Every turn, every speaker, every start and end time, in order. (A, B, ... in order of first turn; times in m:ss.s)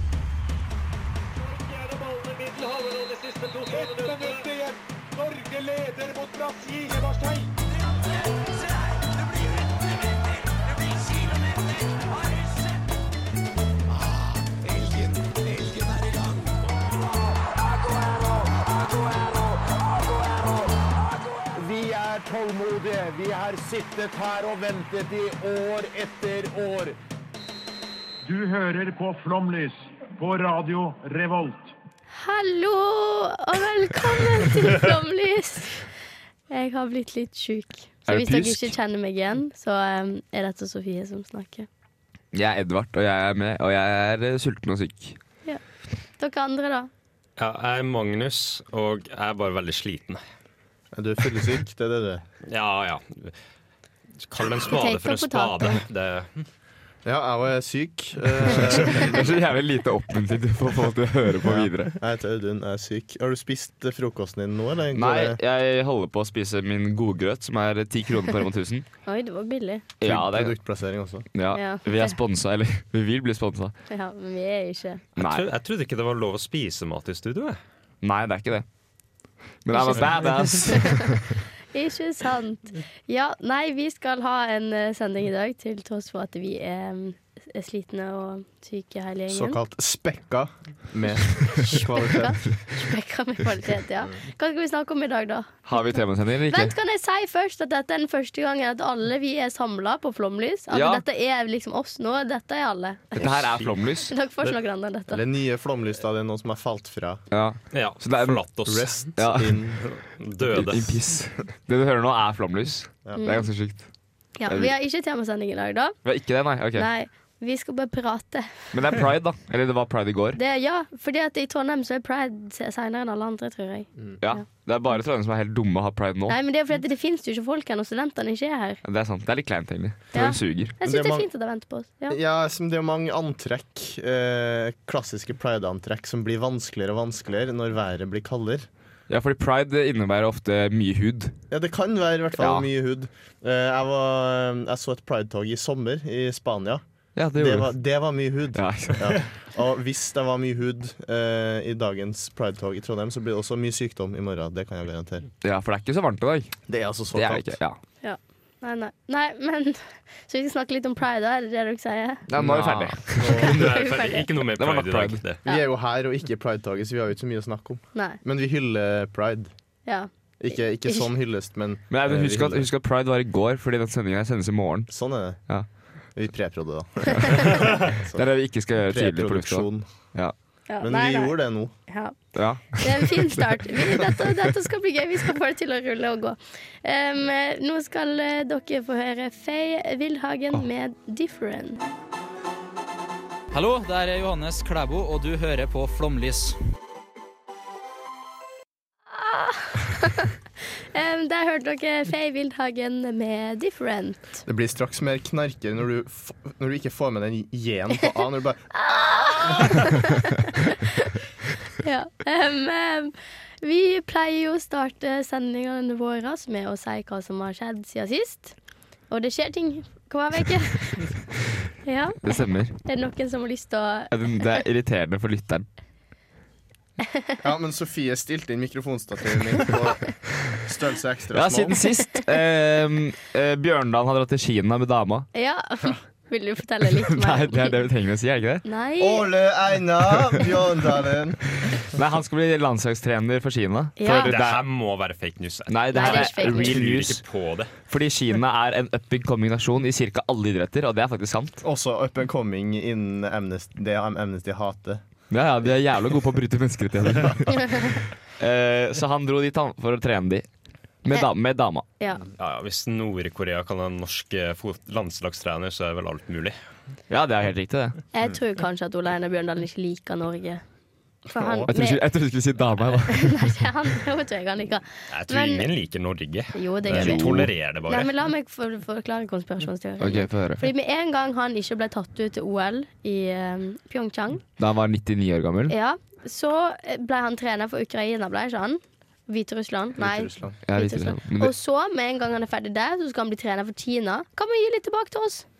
0:01.5-0:07.5 A
0:03.8-0:04.5 B
0:13.9-0:27.0 B
0:28.2-0:31.8 C
0:32.1-0:35.9 D
0:36.5-0:41.7 D
0:38.1-0:38.8 E
0:42.3-0:45.2 E
0:46.2-0:46.9 D
0:47.4-0:50.2 F
0:50.9-0:52.2 G
0:52.5-0:53.4 F
0:54.2-0:56.4 F
0:54.6-0:55.8 D
0:57.0-0:59.2 G
0:58.9-1:02.0 E
1:01.4-1:05.4 G
1:04.9-1:08.9 E
1:09.1-1:09.9 D
1:10.0-1:10.6 E
1:10.0-1:11.3 G
1:11.3-1:13.7 E
1:11.5-1:12.2 D
1:13.9-1:15.0 D
1:15.2-1:17.6 F
1:15.2-1:15.5 E
1:18.0-1:18.6 E
1:19.6-1:21.2 E
1:19.7-1:29.6 D
1:29.3-1:32.4 G
1:31.4-1:35.6 D
1:35.7-1:36.8 E
1:36.5-1:45.2 D
1:40.7-1:41.0 E
1:43.2-1:43.7 F
1:43.2-1:44.1 E
1:45.1-1:47.2 G
1:47.3-1:49.8 E
1:47.7-1:49.2 F
1:48.7-1:49.8 G
1:49.8-1:51.0 F
1:50.4-1:53.9 E
1:53.2-1:53.5 D
1:54.4-1:56.0 D
1:54.5-1:54.7 E
1:56.0-1:56.9 E
1:56.7-1:58.7 D
1:58.7-2:00.4 E
2:00.4-2:04.4 D
2:04.2-2:06.4 E
2:06.3-2:08.8 D
2:08.8-2:10.7 E
2:10.1-2:12.2 D
2:10.8-2:11.3 G
2:12.1-2:18.7 G
2:19.1-2:21.4 E
2:21.5-2:26.8 G
2:22.4-2:22.7 E
2:27.2-2:27.7 E
2:27.4-2:35.3 G
2:28.6-2:29.2 E
2:35.4-2:36.5 E
2:36.7-2:37.6 G
2:37.1-2:37.8 E
2:38.0-2:42.2 D
2:42.3-2:43.5 E
2:42.4-2:43.6 G
2:43.1-2:45.4 F
2:43.5-2:44.3 D
2:44.6-2:45.2 E
2:45.5-2:49.5 G
2:49.8-2:51.1 D
2:50.4-2:52.7 G
2:51.9-2:54.9 E
2:54.9-2:55.4 G
2:56.2-2:59.9 G
2:58.1-3:00.3 E
3:00.7-3:11.8 D
3:00.8-3:01.7 G
3:02.3-3:03.2 E
3:13.5-3:16.6 H
3:19.1-3:20.3 D
3:20.9-3:24.4 D
3:24.4-3:28.9 G
3:28.7-3:31.2 D
3:31.8-3:38.6 D
3:39.1-3:41.2 D
3:41.8-3:42.3 D
3:42.2-3:42.8 E
3:42.8-3:44.4 D
3:44.1-3:45.7 E
3:47.4-3:51.9 G
3:51.3-3:55.3 E
3:55.3-3:57.8 D
3:57.1-3:58.6 E
3:58.6-3:59.3 D
3:59.0-4:01.6 G
4:01.9-4:04.6 E
4:04.0-4:04.3 D
4:04.1-4:07.7 F
4:05.7-4:07.2 E
4:05.9-4:06.8 D
4:07.9-4:11.6 E
4:11.6-4:15.0 G
4:15.3-4:20.5 E
4:21.0-4:21.8 E
4:22.0-4:22.3 D
4:22.4-4:26.6 F
4:27.1-4:28.0 E
4:28.1-4:30.6 D
4:31.3-4:32.0 D
4:31.3-4:31.7 G
4:31.7-4:33.3 E
4:33.1-4:35.7 D
4:35.1-4:38.1 F
4:36.6-4:37.3 D
4:37.0-4:37.5 E
4:37.8-4:44.4 D
4:40.0-4:40.6 E
4:44.6-4:45.7 E
4:45.7-4:55.4 D
4:50.0-4:50.6 G
4:50.7-4:51.5 E